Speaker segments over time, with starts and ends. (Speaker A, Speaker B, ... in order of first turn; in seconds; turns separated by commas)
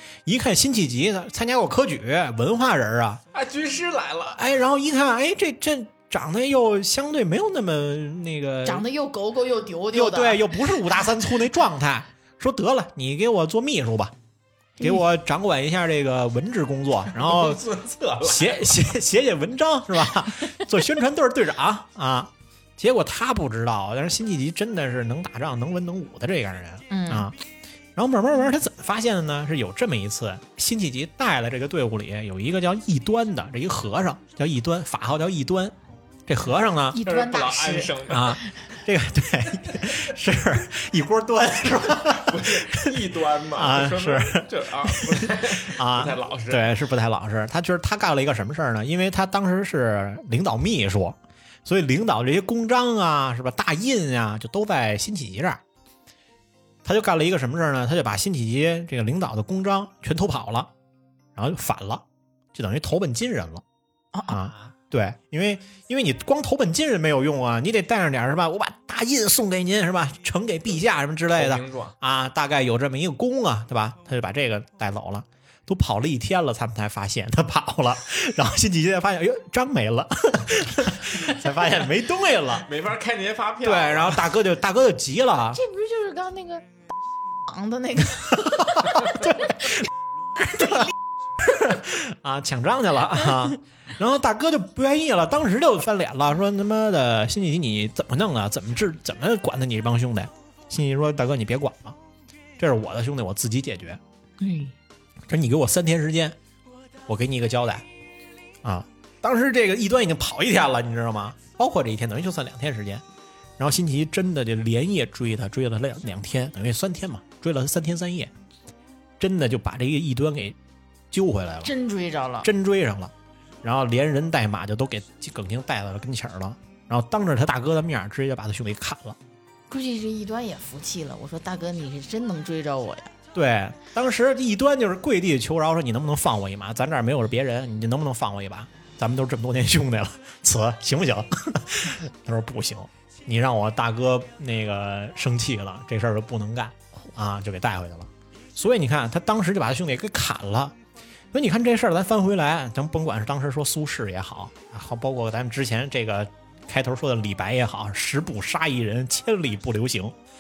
Speaker A: 0.2-3.2, Speaker B: 3.3-4.5, Speaker A: 4.3-8.8, Speaker C: 8.6-10.5, Speaker A: 9.9-14.1, Speaker A: 14.8-17.6, Speaker B: 17.1-18.9, Speaker A: 18.2-27.4, Speaker C: 26.9-27.3, Speaker A: 27.9-35.8, Speaker A: 36.3-37.0, Speaker C: 36.9-38.7, Speaker B: 37.0-38.4, Speaker A: 38.1-43.0, Speaker B: 42.1-46.7, Speaker A: 43.5-55.6, Speaker A: 56.8-60.7, Speaker A: 61.3-63.6, Speaker A: 64.3-82.7, Speaker B: 64.5-64.7, Speaker B: 71.3-71.9, Speaker B: 82.6-84.3, Speaker A: 83.6-85.6, Speaker C: 85.5-86.7, Speaker C: 87.5-88.8, Speaker A: 88.3-102.0, Speaker A: 102.6-104.0, Speaker C: 104.4-104.8, Speaker A: 105.3-106.4, Speaker A: 107.1-107.9, Speaker A: 108.6-113.0, Speaker A: 113.6-118.3, Speaker A: 119.2-120.6, Speaker A: 121.1-121.7, Speaker C: 121.6-122.5, Speaker A: 122.4-129.2, Speaker C: 129.7-133.1, Speaker A: 133.3-150.8, Speaker A: 151.3-160.2